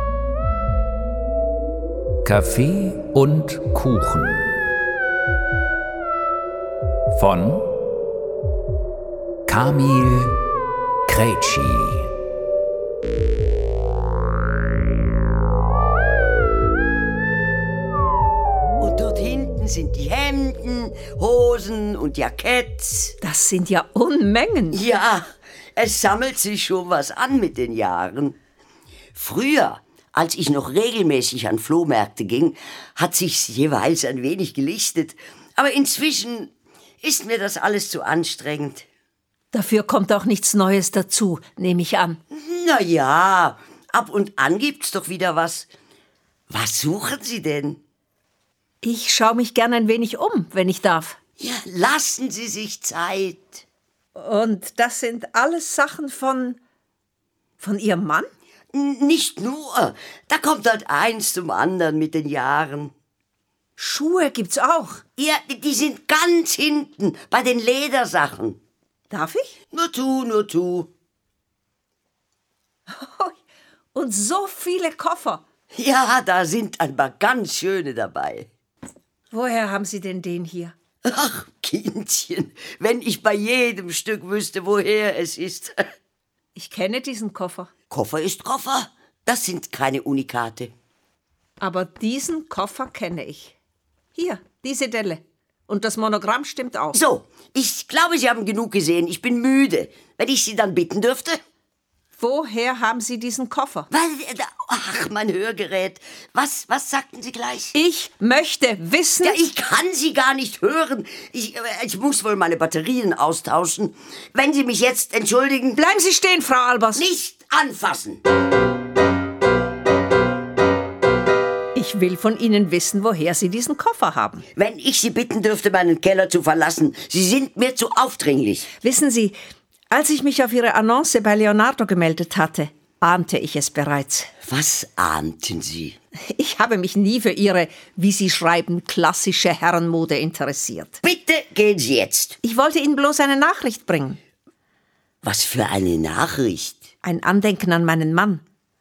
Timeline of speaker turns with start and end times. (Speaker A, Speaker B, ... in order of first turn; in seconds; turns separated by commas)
Speaker A: 2.2-4.6, Speaker A: 7.1-7.7, Speaker A: 9.5-10.4, Speaker A: 11.1-12.1, Speaker B: 18.8-23.2, Speaker C: 23.2-24.8, Speaker B: 24.7-28.4, Speaker B: 29.1-36.5, Speaker B: 37.0-38.9, Speaker C: 39.5-42.2, Speaker B: 42.3-45.7, Speaker B: 46.5-47.8, Speaker C: 48.8-51.2, Speaker B: 51.4-53.6, Speaker C: 54.1-56.6, Speaker C: 57.6-58.3, Speaker B: 58.7-62.9, Speaker C: 63.8-65.0, Speaker B: 65.2-68.6, Speaker C: 69.1-69.5, Speaker B: 69.7-70.9, Speaker C: 72.9-73.4, Speaker C: 73.9-75.4, Speaker B: 75.7-78.5, Speaker C: 79.3-80.7, Speaker B: 81.0-85.8, Speaker C: 86.5-87.7, Speaker B: 87.9-90.7, Speaker C: 91.6-93.6, Speaker C: 94.1-97.0, Speaker B: 96.9-101.4, Speaker C: 102.2-103.9, Speaker B: 103.9-107.7, Speaker C: 107.7-109.4, Speaker B: 109.2-115.8, Speaker C: 115.7-117.0, Speaker B: 117.0-118.2, Speaker C: 121.7-124.5, Speaker B: 124.5-128.7, Speaker C: 128.8-129.4, Speaker C: 129.9-134.3, Speaker B: 134.4-136.0, Speaker C: 136.2-141.0, Speaker B: 141.0-142.4, Speaker C: 142.4-144.2, Speaker B: 145.2-146.9, Speaker C: 147.0-148.4